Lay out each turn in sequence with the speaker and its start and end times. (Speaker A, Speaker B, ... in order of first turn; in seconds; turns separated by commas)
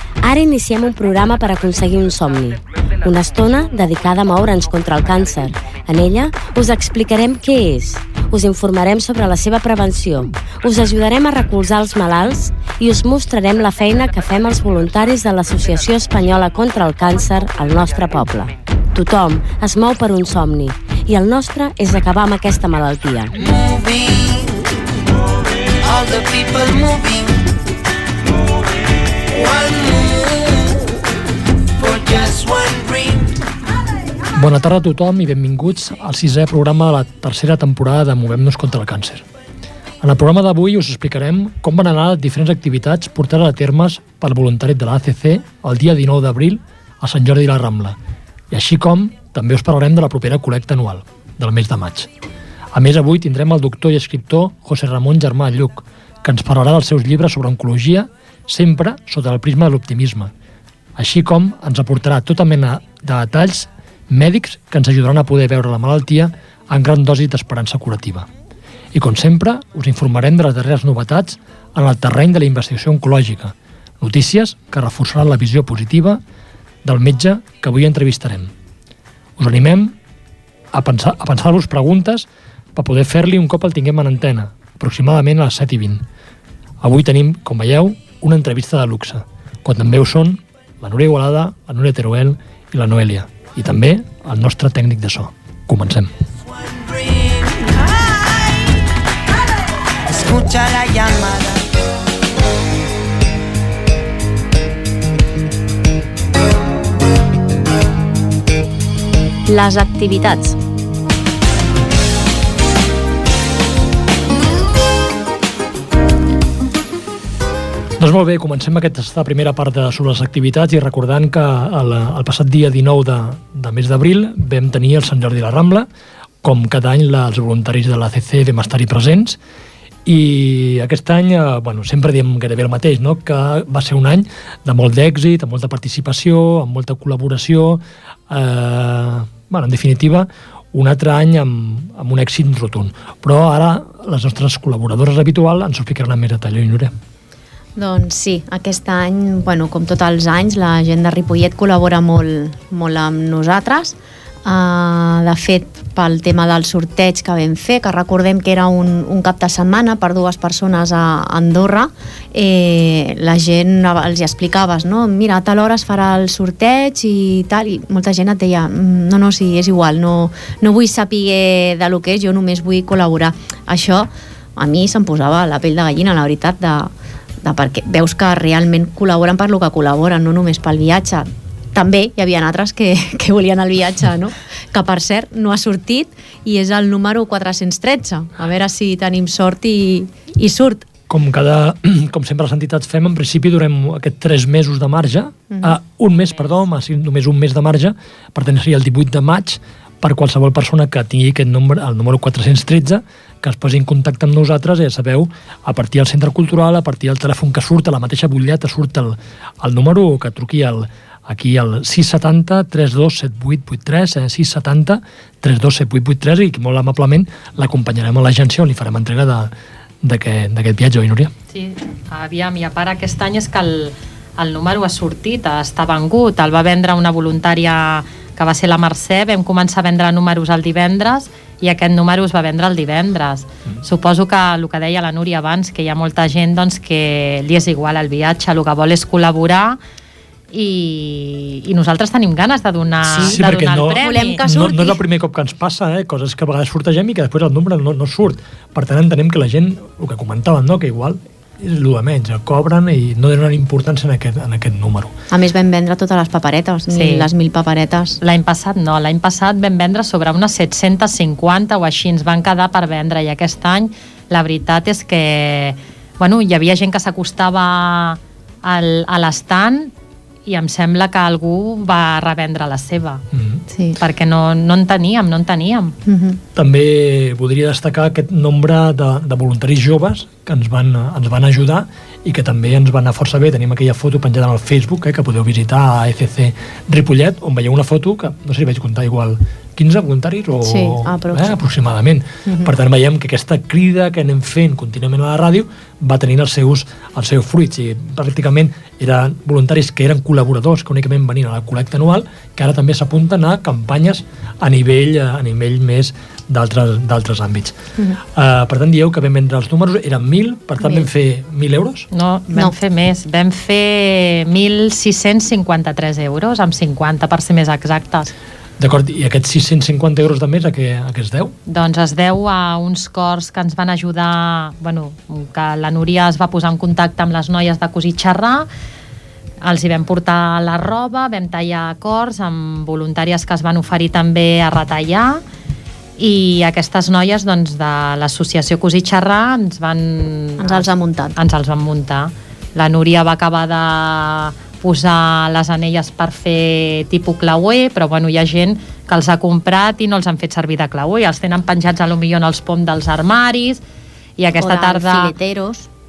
Speaker A: 0.2-23.3, Speaker B: 23.4-24.9, Speaker B: 25.8-27.5, Speaker B: 29.3-31.0, Speaker B: 31.8-33.4, Speaker C: 34.4-39.2, Speaker C: 40.0-48.0, Speaker C: 48.5-52.1, Speaker C: 52.7-60.3, Speaker C: 61.0-68.3, Speaker C: 68.9-76.2, Speaker C: 76.8-78.5, Speaker C: 79.4-80.0, Speaker C: 80.7-86.0, Speaker C: 86.8-96.1, Speaker B: 96.4-97.9, Speaker B: 100.1-101.6, Speaker D: 109.5-110.6, Speaker C: 118.0-125.9, Speaker C: 126.4-129.4, Speaker C: 130.1-146.9, Speaker D: 147.8-190.9, Speaker C: 191.1-219.5, Speaker D: 195.5-195.8, Speaker C: 220.0-221.3, Speaker E: 221.5-239.8, Speaker E: 240.5-244.4, Speaker C: 243.1-255.1, Speaker D: 243.2-245.0, Speaker D: 255.3-258.2, Speaker E: 256.9-257.3, Speaker E: 258.2-269.9, Speaker E: 270.5-273.2, Speaker C: 273.3-273.6, Speaker D: 273.7-274.0, Speaker E: 274.0-276.0, Speaker D: 276.1-276.4, Speaker C: 276.6-312.1, Speaker D: 290.6-291.6, Speaker D: 292.5-292.7, Speaker D: 310.8-311.1, Speaker E: 312.1-318.3, Speaker C: 318.8-321.6, Speaker E: 321.7-328.7, Speaker E: 329.6-335.4, Speaker E: 336.2-353.8, Speaker D: 340.6-341.4, Speaker E: 354.4-355.3, Speaker D: 354.6-355.9